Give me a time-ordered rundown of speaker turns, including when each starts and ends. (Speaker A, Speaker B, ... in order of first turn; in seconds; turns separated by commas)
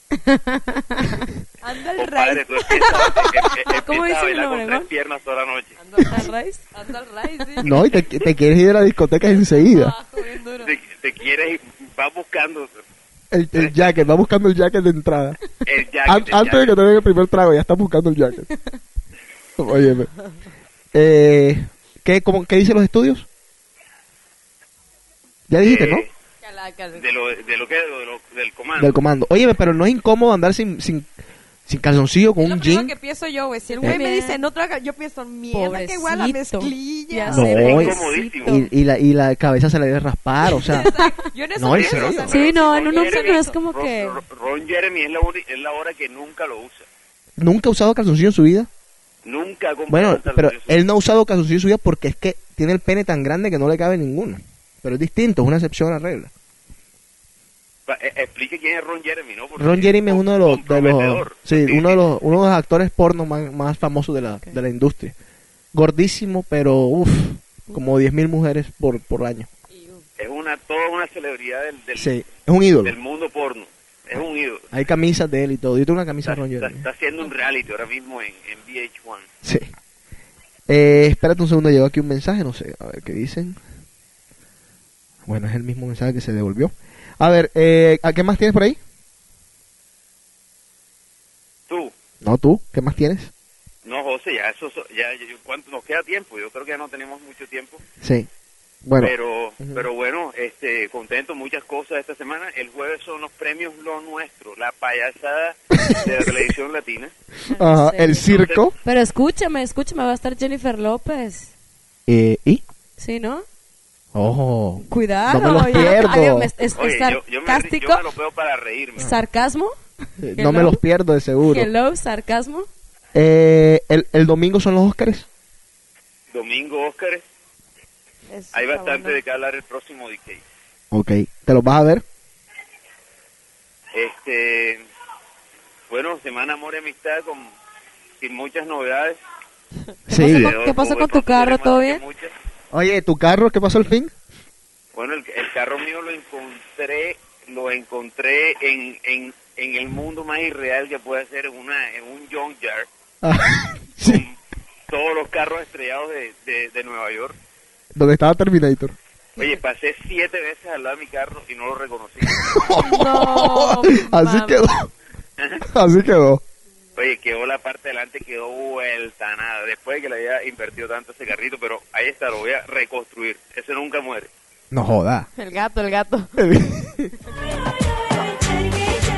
Speaker A: 0.1-1.3, Speaker B: 1.6-3.1, Speaker C: 2.0-5.7, Speaker A: 2.7-4.9, Speaker B: 5.8-7.8, Speaker A: 6.0-6.6, Speaker D: 7.6-9.9, Speaker B: 9.3-10.7, Speaker C: 10.6-12.7, Speaker D: 13.3-15.4, Speaker C: 13.5-13.9, Speaker C: 15.6-16.8, Speaker D: 16.1-18.5, Speaker D: 19.6-20.1, Speaker D: 20.9-23.3, Speaker D: 25.5-26.0, Speaker C: 25.6-26.1, Speaker B: 26.4-27.0, Speaker C: 26.9-29.0, Speaker D: 28.8-31.1, Speaker D: 31.6-32.9, Speaker B: 32.4-37.6, Speaker A: 33.8-34.4, Speaker A: 35.5-38.7, Speaker D: 37.3-40.9, Speaker C: 37.5-38.6, Speaker B: 40.6-43.5, Speaker A: 40.7-41.1, Speaker D: 41.6-42.3, Speaker C: 41.7-46.9, Speaker A: 42.3-44.2, Speaker D: 47.4-48.7, Speaker C: 49.2-50.8, Speaker D: 49.9-56.3, Speaker C: 57.9-62.0, Speaker D: 59.6-65.1, Speaker D: 65.7-69.5, Speaker B: 69.7-70.0, Speaker C: 70.2-72.1, Speaker D: 72.0-72.9, Speaker C: 72.8-74.6, Speaker D: 74.7-76.9, Speaker C: 76.2-79.3, Speaker D: 79.4-79.7, Speaker D: 80.7-83.6, Speaker D: 85.2-88.8, Speaker D: 92.2-93.3, Speaker C: 93.8-97.8, Speaker D: 98.0-98.3, Speaker D: 98.8-99.9, Speaker C: 99.0-107.1, Speaker A: 107.5-108.3, Speaker D: 107.6-108.8, Speaker C: 108.3-108.6, Speaker A: 108.8-111.5, Speaker D: 112.1-112.6, Speaker A: 113.0-113.4, Speaker D: 114.1-116.5, Speaker A: 114.9-118.0, Speaker C: 116.8-119.0, Speaker A: 119.0-119.7, Speaker D: 120.2-121.7, Speaker A: 120.4-120.8, Speaker A: 121.4-122.7, Speaker D: 123.1-125.3, Speaker C: 126.3-127.2, Speaker B: 128.3-129.2, Speaker C: 128.5-130.4, Speaker D: 130.9-132.0, Speaker C: 133.9-134.8, Speaker C: 135.9-137.5, Speaker C: 138.2-139.2, Speaker D: 140.1-140.5, Speaker A: 140.1-142.0, Speaker C: 140.1-142.3, Speaker D: 142.7-144.1, Speaker C: 144.9-152.9, Speaker D: 153.2-154.2, Speaker C: 154.0-154.3, Speaker C: 154.9-157.3, Speaker D: 157.9-158.9, Speaker C: 159.4-162.6, Speaker D: 162.3-164.9, Speaker B: 162.8-164.7, Speaker D: 165.7-166.4, Speaker C: 166.9-174.3, Speaker D: 174.7-175.3, Speaker B: 175.4-176.3, Speaker D: 176.4-177.1, Speaker B: 178.4-179.0